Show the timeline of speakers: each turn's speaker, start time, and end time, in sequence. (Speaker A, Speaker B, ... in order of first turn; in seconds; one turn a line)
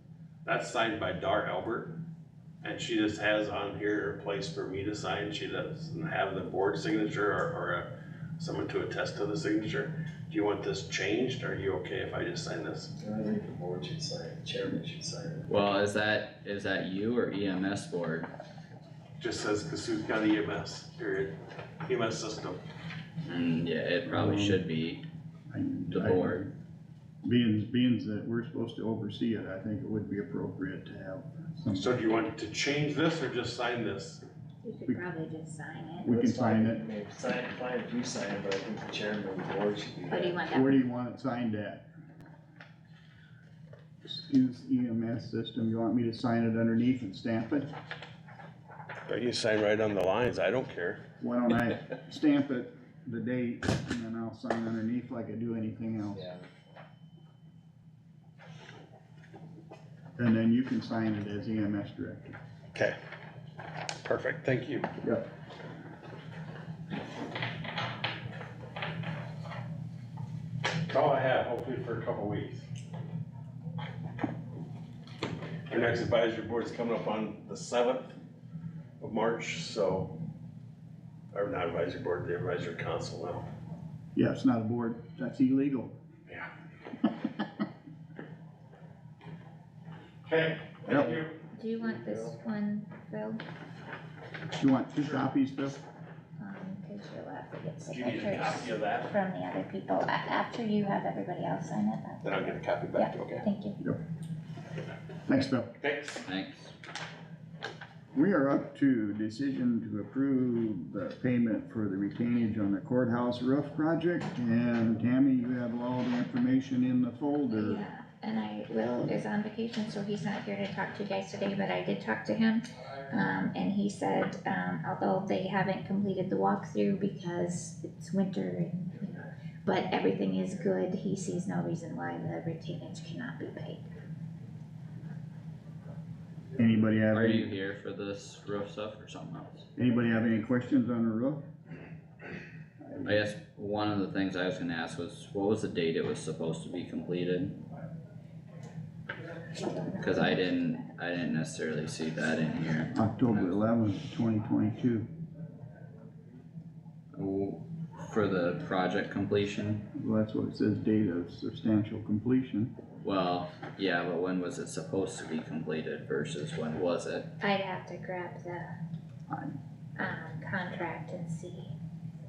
Speaker A: 0.5-2.0
Speaker A: 2.6-12.9
Speaker B: 13.0-15.5
Speaker C: 15.5-18.3
Speaker A: 19.2-22.6
Speaker C: 23.3-25.0
Speaker D: 24.1-24.6
Speaker D: 25.5-26.5
Speaker C: 25.9-26.4
Speaker D: 27.2-32.0
Speaker A: 31.8-34.2
Speaker E: 34.6-36.2
Speaker D: 36.0-36.8
Speaker B: 36.1-40.4
Speaker E: 40.1-40.8
Speaker D: 40.5-41.9
Speaker D: 44.0-47.7
Speaker A: 49.1-51.0
Speaker D: 51.2-56.3
Speaker D: 60.2-62.4
Speaker A: 64.0-64.9
Speaker D: 65.0-65.3
Speaker A: 70.9-72.7
Speaker A: 75.7-78.2
Speaker A: 79.0-80.2
Speaker A: 81.3-83.5
Speaker D: 84.2-86.0
Speaker A: 90.3-91.4
Speaker D: 90.9-91.2
Speaker E: 91.5-93.4
Speaker D: 94.6-95.8
Speaker E: 96.4-103.8
Speaker A: 97.9-99.1
Speaker A: 102.2-103.5
Speaker D: 105.3-105.7
Speaker A: 105.8-106.2
Speaker C: 106.2-106.7
Speaker D: 108.2-117.9
Speaker E: 117.5-133.9
Speaker D: 136.6-137.5
Speaker C: 137.1-139.7
Speaker D: 139.8-141.4
Speaker D: 142.8-143.2
Speaker C: 143.0-147.6
Speaker E: 149.6-150.9
Speaker C: 150.0-153.6
Speaker D: 152.9-155.1
Speaker C: 157.1-159.8
Speaker D: 159.9-162.7
Speaker C: 163.0-167.3
Speaker E: 167.4-168.8
Speaker D: 169.3-169.6
Speaker E: 170.0-171.8